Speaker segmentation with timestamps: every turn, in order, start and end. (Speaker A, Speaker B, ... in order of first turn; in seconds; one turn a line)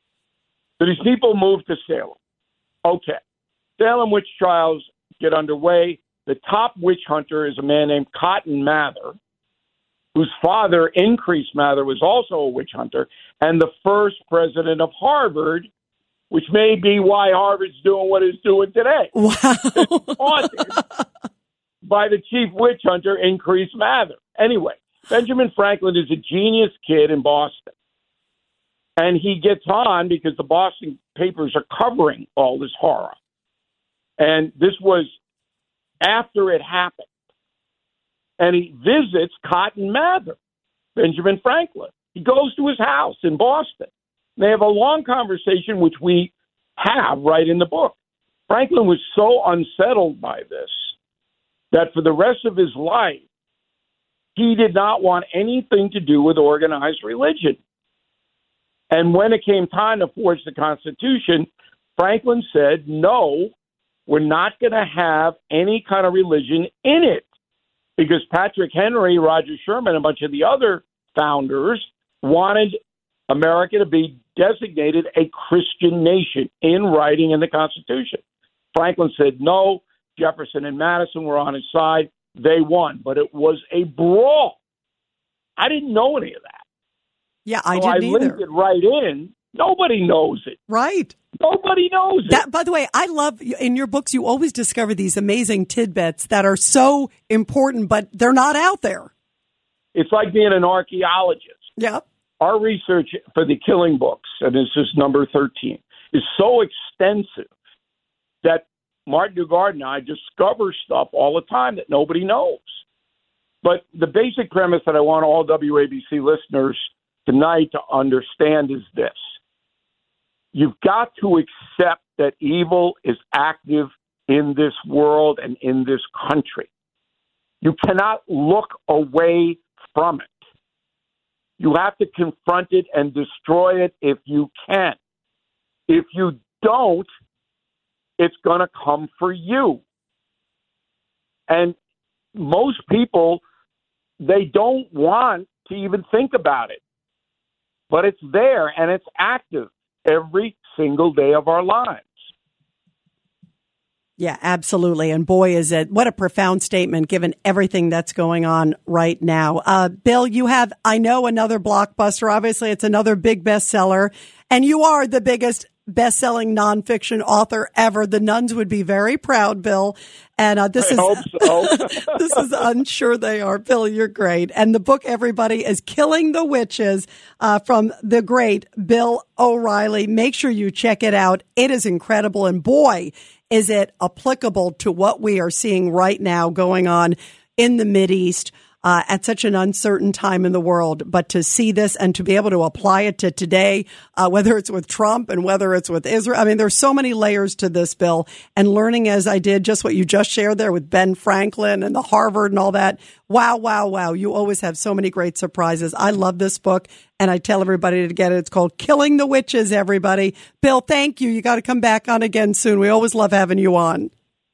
Speaker A: 0.8-2.2
Speaker A: 2.9-3.2
Speaker A: 3.8-9.1
Speaker A: 10.2-15.7
Speaker A: 16.3-19.1
Speaker B: 19.1-20.2
Speaker A: 19.8-20.7
Speaker A: 21.8-27.7
Speaker A: 29.0-33.2
Speaker A: 34.2-35.1
Speaker A: 36.0-37.1
Speaker A: 38.4-40.4
Speaker A: 41.0-48.0
Speaker A: 48.5-50.9
Speaker A: 51.7-53.2
Speaker A: 54.4-57.6
Speaker A: 58.9-63.5
Speaker A: 64.1-67.3
Speaker A: 68.0-72.8
Speaker A: 73.3-78.2
Speaker A: 78.7-84.6
Speaker A: 85.6-86.6
Speaker B: 87.5-88.4
Speaker A: 87.7-90.6
Speaker B: 90.7-91.1
Speaker A: 91.4-92.4
Speaker B: 92.3-99.1
Speaker A: 100.0-101.7
Speaker B: 101.8-102.0
Speaker A: 102.4-107.5
Speaker A: 108.4-112.8
Speaker A: 113.6-119.2
Speaker A: 120.5-126.7
Speaker A: 127.6-130.3
Speaker A: 131.6-135.0
Speaker A: 135.9-137.1
Speaker A: 138.2-139.8
Speaker A: 141.5-141.8
Speaker A: 142.4-143.4
Speaker A: 144.2-146.8
Speaker A: 147.9-152.1
Speaker B: 154.2-214.1
Speaker A: 170.8-172.4